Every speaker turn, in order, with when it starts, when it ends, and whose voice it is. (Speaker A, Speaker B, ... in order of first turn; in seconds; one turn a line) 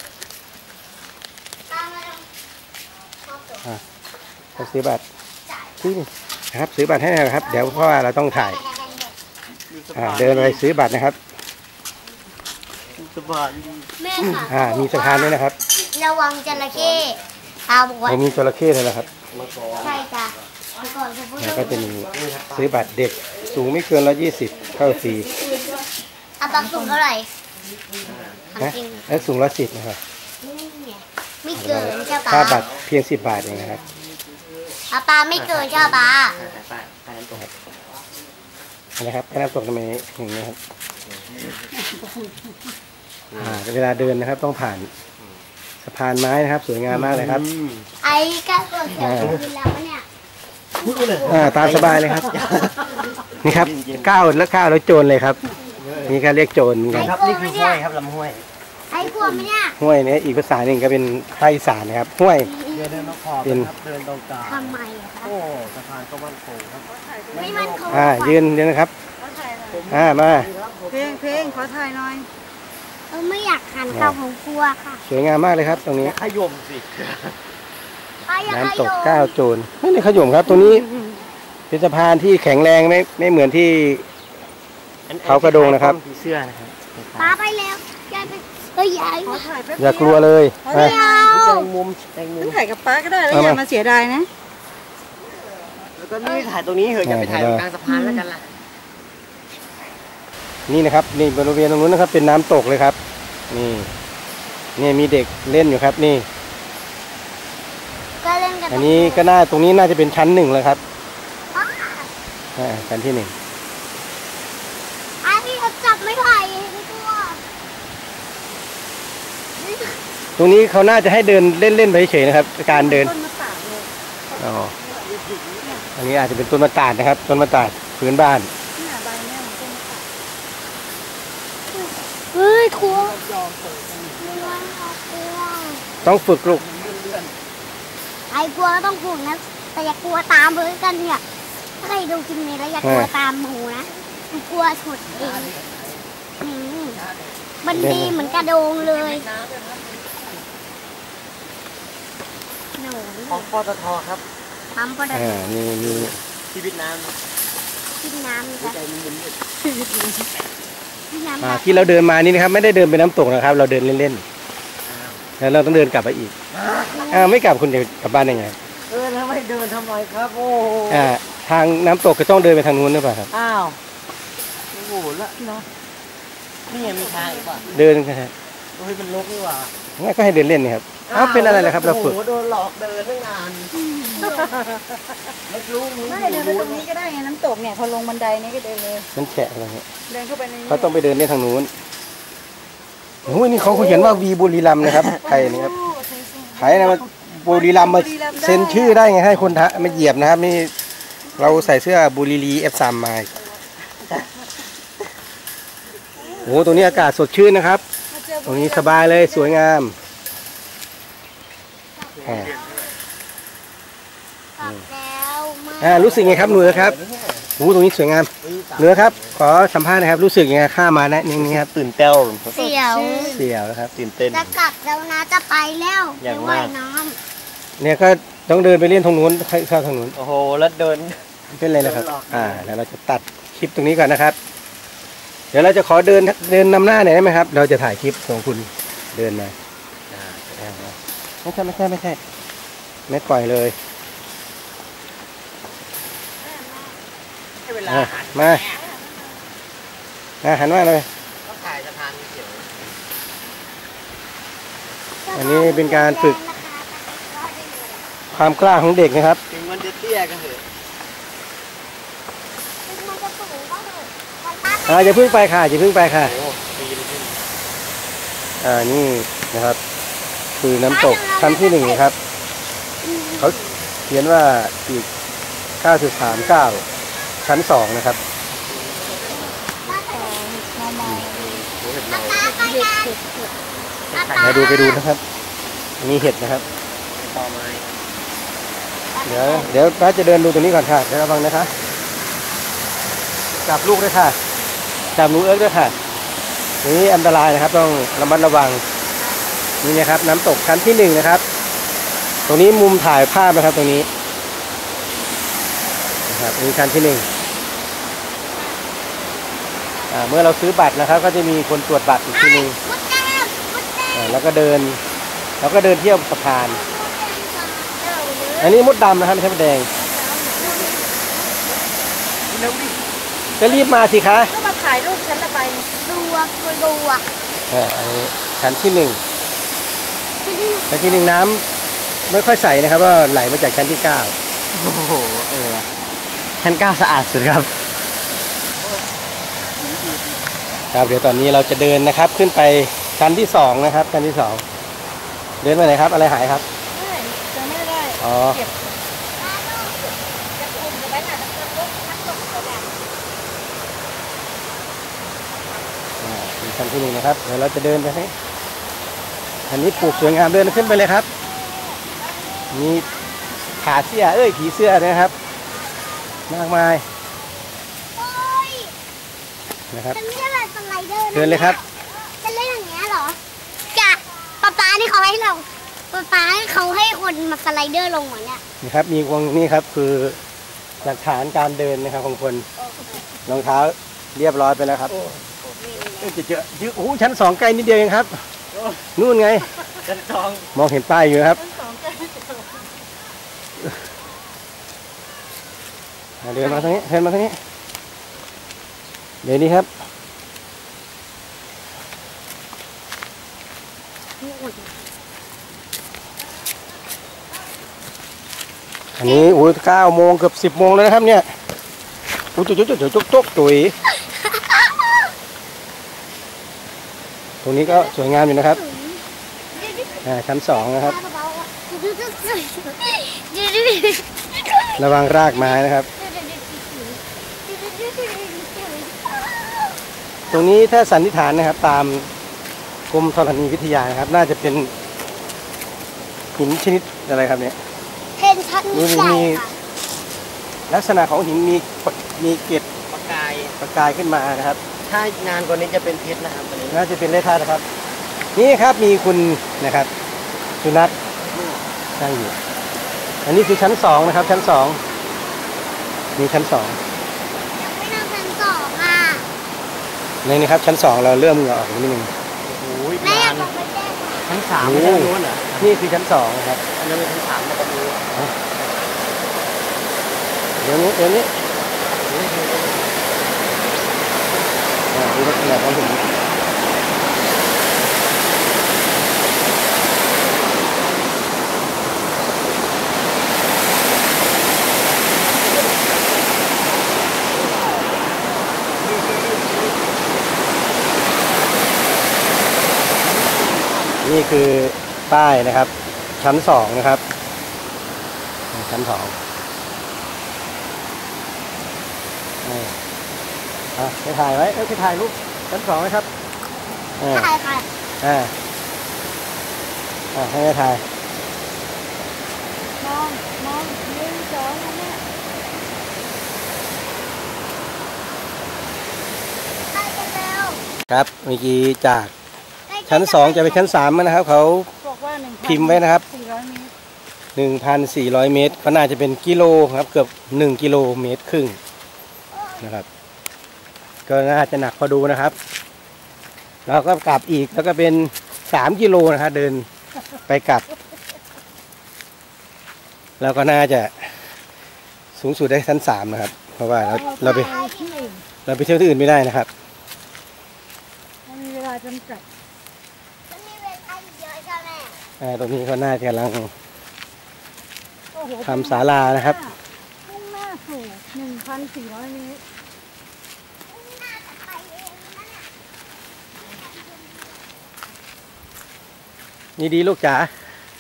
Speaker A: 1.7-2.3
Speaker A: 3.2-3.8
Speaker B: 4.6-5.0
Speaker A: 5.5-5.8
Speaker B: 5.8-8.6
Speaker A: 7.4-9.2
Speaker C: 9.7-10.6
Speaker B: 9.9-11.2
Speaker C: 13.0-14.4
Speaker A: 14.0-18.2
Speaker B: 14.5-15.6
Speaker C: 16.5-17.2
Speaker B: 18.1-19.1
Speaker C: 19.3-20.1
Speaker A: 19.8-22.0
Speaker B: 21.4-25.3
Speaker C: 22.1-22.8
Speaker A: 25.4-25.8
Speaker A: 26.4-27.3
Speaker D: 26.6-26.9
Speaker C: 27.9-28.5
Speaker A: 28.5-29.1
Speaker B: 28.6-30.0
Speaker A: 30.4-32.7
Speaker B: 31.5-33.8
Speaker C: 32.1-32.8
Speaker A: 34.9-36.4
Speaker C: 35.4-37.5
Speaker B: 39.0-40.6
Speaker C: 41.1-41.6
Speaker C: 43.3-43.6
Speaker B: 43.3-44.9
Speaker B: 45.8-47.5
Speaker C: 46.9-47.9
Speaker A: 48.0-50.0
Speaker B: 49.0-49.4
Speaker C: 49.0-49.4
Speaker C: 50.8-54.2
Speaker A: 51.0-51.4
Speaker B: 51.2-52.3
Speaker B: 53.4-55.4
Speaker C: 55.8-56.2
Speaker B: 56.1-57.1
Speaker C: 56.9-58.5
Speaker A: 57.0-57.8
Speaker A: 58.9-59.8
Speaker C: 59.0-59.5
Speaker B: 59.8-62.5
Speaker A: 62.4-63.1
Speaker C: 62.7-68.2
Speaker B: 63.4-63.7
Speaker A: 64.4-65.3
Speaker D: 66.9-67.7
Speaker A: 67.4-68.5
Speaker B: 67.9-68.9
Speaker D: 69.2-69.9
Speaker C: 69.7-71.7
Speaker B: 69.9-70.5
Speaker D: 70.9-72.3
Speaker A: 73.1-75.0
Speaker B: 73.9-74.2
Speaker B: 75.0-76.2
Speaker C: 75.8-77.4
Speaker A: 78.3-79.3
Speaker B: 78.5-80.8
Speaker B: 81.7-84.0
Speaker C: 85.1-87.4
Speaker B: 85.3-86.0
Speaker A: 87.2-89.5
Speaker D: 89.2-91.7
Speaker B: 89.8-91.0
Speaker A: 90.7-91.5
Speaker C: 91.2-92.6
Speaker D: 92.4-94.3
Speaker B: 93.3-93.6
Speaker C: 95.9-98.5
Speaker B: 97.0-97.6
Speaker D: 97.9-98.2
Speaker B: 100.7-103.0
Speaker B: 103.5-103.9
Speaker B: 104.8-106.3
Speaker A: 108.2-109.3
Speaker B: 108.7-110.8
Speaker A: 111.5-112.1
Speaker B: 112.6-113.3
Speaker A: 115.2-117.4
Speaker A: 119.6-120.0
Speaker B: 120.4-123.1
Speaker D: 122.7-123.9
Speaker B: 124.4-124.7
Speaker C: 124.8-125.9
Speaker B: 126.0-128.5
Speaker D: 128.8-130.1
Speaker A: 131.7-133.2
Speaker C: 132.8-134.7
Speaker A: 134.2-135.9
Speaker B: 136.0-136.6
Speaker C: 136.0-137.4
Speaker A: 138.3-141.2
Speaker A: 141.8-145.5
Speaker B: 142.8-143.1
Speaker C: 145.1-146.1
Speaker A: 146.4-147.0
Speaker C: 147.0-150.3
Speaker A: 147.6-149.3
Speaker B: 147.7-148.2
Speaker A: 152.8-153.5
Speaker C: 153.3-154.2
Speaker A: 154.8-155.5
Speaker B: 155.1-156.1
Speaker C: 155.8-157.2
Speaker A: 158.0-158.8
Speaker C: 158.6-159.4
Speaker D: 159.6-160.3
Speaker A: 161.1-162.0
Speaker B: 161.4-164.2
Speaker C: 164.8-165.2
Speaker B: 165.4-166.3
Speaker C: 166.5-167.2
Speaker B: 167.1-168.6
Speaker C: 168.9-171.1
Speaker B: 170.9-173.3
Speaker C: 173.3-173.8
Speaker C: 174.7-175.5
Speaker C: 176.7-177.7
Speaker D: 176.7-177.7
Speaker B: 177.7-178.3
Speaker C: 178.8-179.7
Speaker B: 180.0-182.2
Speaker C: 181.1-184.4
Speaker D: 183.7-184.7
Speaker A: 184.2-184.6
Speaker C: 185.5-186.9
Speaker D: 186.1-189.1
Speaker B: 189.2-189.9
Speaker D: 190.1-191.0
Speaker B: 190.7-191.7
Speaker B: 193.2-195.7
Speaker D: 193.8-194.2
Speaker D: 195.2-199.1
Speaker B: 196.6-200.7
Speaker D: 201.3-201.7
Speaker B: 201.4-203.3
Speaker D: 206.2-207.1
Speaker C: 206.2-206.7
Speaker B: 206.4-207.8
Speaker D: 208.1-209.6
Speaker B: 208.4-209.9
Speaker C: 212.2-212.9
Speaker B: 212.2-212.5
Speaker A: 212.3-212.7
Speaker A: 214.6-216.1
Speaker B: 215.8-217.0
Speaker C: 215.8-217.5
Speaker B: 217.6-221.7
Speaker C: 218.4-219.4
Speaker C: 221.3-222.5
Speaker A: 222.5-223.4
Speaker D: 222.6-223.5
Speaker B: 223.3-223.9
Speaker C: 223.9-224.6
Speaker A: 224.3-227.2
Speaker C: 226.2-226.7
Speaker B: 227.8-230.2
Speaker C: 230.2-231.2
Speaker B: 231.5-234.4
Speaker C: 231.8-232.7
Speaker B: 235.5-239.5
Speaker C: 240.1-241.0
Speaker B: 241.4-242.2
Speaker B: 243.1-243.8
Speaker C: 247.6-248.9
Speaker B: 247.9-248.6
Speaker B: 250.4-251.1
Speaker C: 251.4-252.9
Speaker A: 255.2-258.1
Speaker B: 255.3-256.4
Speaker B: 258.3-259.4
Speaker C: 259.5-260.6
Speaker A: 262.9-265.4
Speaker B: 264.9-266.4
Speaker C: 266.1-267.4
Speaker B: 268.6-269.8
Speaker B: 270.6-272.2
Speaker A: 270.9-272.0
Speaker A: 273.0-273.8
Speaker B: 274.1-275.1
Speaker B: 275.8-276.8
Speaker B: 277.4-278.2
Speaker C: 278.7-279.5
Speaker D: 279.7-281.7
Speaker A: 279.9-280.4
Speaker C: 281.3-282.6
Speaker A: 282.1-283.2
Speaker D: 282.4-283.5
Speaker C: 284.1-285.0
Speaker A: 284.1-285.1
Speaker B: 284.4-285.2
Speaker B: 286.0-286.6
Speaker C: 287.1-288.0
Speaker A: 289.1-289.8
Speaker B: 289.2-291.7
Speaker B: 293.6-294.4
Speaker B: 295.1-295.9
Speaker B: 296.8-298.8
Speaker B: 299.8-301.4
Speaker B: 302.5-304.1
Speaker B: 306.3-307.3
Speaker B: 310.1-312.8
Speaker A: 312.3-314.4
Speaker B: 314.1-315.0
Speaker B: 315.6-316.8
Speaker A: 316.7-318.0
Speaker D: 318.0-318.8
Speaker B: 318.6-319.9
Speaker D: 320.0-321.0
Speaker A: 320.6-321.4
Speaker C: 322.5-323.0
Speaker B: 323.6-324.5
Speaker D: 323.6-325.9
Speaker A: 326.0-327.3
Speaker B: 327.7-329.2
Speaker A: 330.4-331.4
Speaker B: 330.9-331.6
Speaker B: 332.3-334.4
Speaker C: 334.7-335.9
Speaker C: 336.6-337.7
Speaker D: 339.8-340.4
Speaker B: 340.9-344.6
Speaker B: 345.6-346.6
Speaker D: 346.9-348.8
Speaker B: 348.2-348.6
Speaker A: 349.4-350.0
Speaker D: 350.0-352.9
Speaker B: 356.2-358.3
Speaker B: 359.7-361.3
Speaker A: 359.9-360.7
Speaker A: 361.5-363.3
Speaker B: 362.7-363.0
Speaker B: 363.8-365.3
Speaker B: 366.5-367.0
Speaker A: 368.1-368.9
Speaker B: 369.9-370.2
Speaker A: 370.1-371.8
Speaker B: 371.3-371.8
Speaker A: 372.4-373.4
Speaker A: 373.9-378.6
Speaker B: 378.8-380.4
Speaker B: 381.0-382.7
Speaker A: 382.8-383.1
Speaker B: 383.5-385.1
Speaker C: 385.1-385.8
Speaker A: 385.8-386.4
Speaker B: 386.2-388.4
Speaker C: 388.7-389.1
Speaker B: 389.2-389.7
Speaker C: 390.0-390.7
Speaker B: 390.7-391.6
Speaker D: 391.6-392.8
Speaker B: 396.4-397.6
Speaker A: 396.6-396.9
Speaker B: 399.4-399.9
Speaker A: 404.4-405.0
Speaker B: 409.2-411.5
Speaker A: 409.2-409.7
Speaker B: 412.6-413.9
Speaker A: 414.3-415.3
Speaker B: 417.6-418.8
Speaker A: 417.9-419.2
Speaker A: 419.7-420.2
Speaker B: 420.2-421.2
Speaker A: 420.7-430.0
Speaker B: 425.0-426.1
Speaker B: 430.5-432.3
Speaker B: 433.1-434.9
Speaker B: 436.6-437.8
Speaker A: 438.4-439.7
Speaker B: 438.9-439.6
Speaker B: 440.9-442.9
Speaker C: 443.1-443.8
Speaker B: 443.8-444.8
Speaker C: 445.0-447.1
Speaker B: 446.9-447.9
Speaker B: 448.6-450.1
Speaker B: 450.8-451.1
Speaker C: 451.5-451.8
Speaker B: 452.2-452.5
Speaker B: 453.4-455.0
Speaker B: 456.4-457.0
Speaker A: 457.8-459.5
Speaker B: 460.4-462.3
Speaker C: 462.6-463.7
Speaker A: 463.2-464.5
Speaker C: 464.5-466.0
Speaker B: 464.8-466.8
Speaker C: 466.9-468.2
Speaker B: 470.8-471.5
Speaker C: 472.2-473.3
Speaker B: 475.1-476.2
Speaker C: 489.1-489.9
Speaker B: 494.2-497.2
Speaker B: 498.7-499.4
Speaker B: 502.6-502.9
Speaker B: 504.0-506.3
Speaker B: 507.2-507.5
Speaker A: 507.3-507.9
Speaker B: 508.2-508.5
Speaker B: 510.3-511.0
Speaker D: 513.0-515.2
Speaker A: 519.9-520.8
Speaker B: 521.1-522.3
Speaker A: 522.9-524.1
Speaker B: 523.1-524.9
Speaker D: 525.0-526.9
Speaker B: 525.6-526.2
Speaker B: 527.6-531.8
Speaker A: 532.5-532.9
Speaker B: 534.3-535.6
Speaker B: 536.9-539.9
Speaker B: 540.5-540.9
Speaker B: 543.4-544.5
Speaker B: 545.4-547.7
Speaker A: 547.1-548.3
Speaker D: 547.1-548.4
Speaker B: 548.7-549.7
Speaker D: 551.5-552.5
Speaker A: 553.5-555.2
Speaker B: 555.4-556.7
Speaker D: 558.3-562.6
Speaker B: 558.6-559.6
Speaker A: 563.9-565.7
Speaker A: 566.6-568.0
Speaker B: 569.8-570.5